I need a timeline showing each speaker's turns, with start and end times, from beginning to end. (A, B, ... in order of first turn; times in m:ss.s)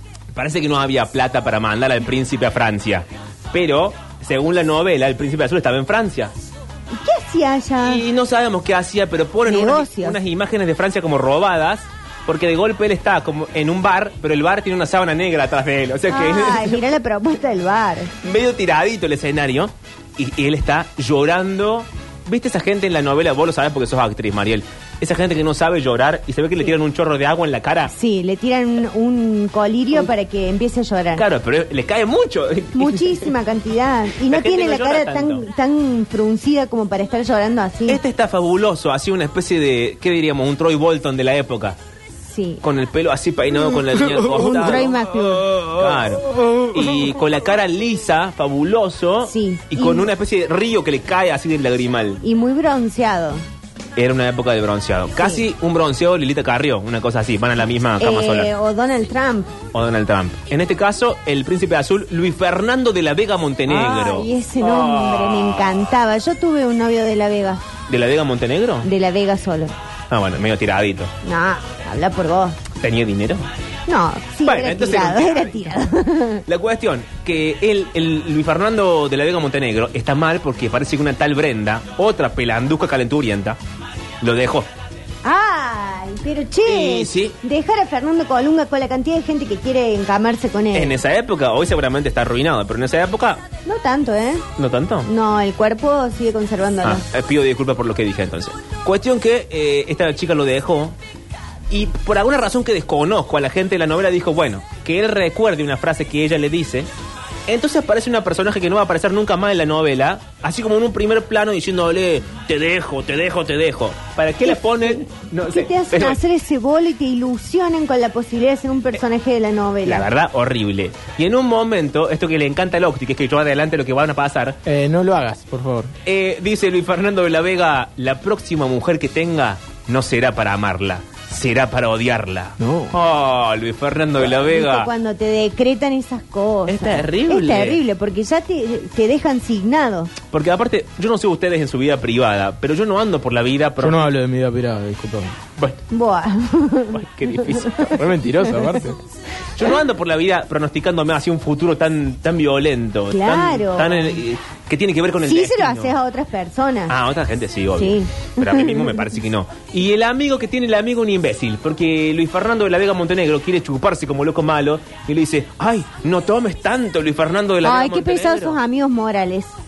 0:00.3-0:06.3 A
0:06.9-0:08.0 B
0:07.8-0:16.8 A
0:09.4-0:10.2 B
0:16.1-0:18.1 B
0:18.2-0:27.9 A
0:27.9-0:31.2 B
0:31.2-0:33.3 A
0:32.7-0:38.0 B
0:34.2-0:35.4 A
0:37.9-0:41.8 A
0:42.3-0:42.6 B
0:42.6-0:52.2 A
0:44.3-0:45.8 B
0:49.3-0:50.1 B
0:52.2-0:53.4 B
0:54.0-0:58.5 A
0:58.0-0:59.5 B
0:59.7-1:05.8 A
1:03.7-1:07.6 B
1:07.9-1:08.9 A
1:08.8-1:09.7 B
1:10.1-1:11.1 A
1:11.2-1:12.6 B
1:12.8-1:13.5 A
1:13.9-1:16.4 B
1:14.4-1:15.8 A
1:16.4-1:23.6 A
1:24.2-1:24.7 A
1:25.2-1:31.0 B
1:26.6-1:27.4 A
1:30.7-1:33.4 A
1:33.6-1:34.4 B
1:34.6-1:35.1 A
1:35.0-1:37.0 B
1:36.8-1:41.0 A
1:41.7-1:46.9 A
1:47.5-1:56.2 A
1:54.4-2:00.1 B
1:59.8-2:04.6 A
2:04.6-2:05.9 C
2:06.0-2:14.9 A
2:12.6-2:12.9 C
2:14.3-2:20.1 B
2:16.7-2:17.8 A
2:20.3-2:24.1 A
2:23.8-2:25.4 C
2:25.9-2:27.0 B
2:26.9-2:28.0 A
2:28.0-2:29.0 C
2:29.6-2:35.9 A
2:33.1-2:34.2 B
2:35.2-2:36.9 B
2:36.9-2:48.6 A
2:37.8-2:38.9 B
2:47.6-2:49.5 B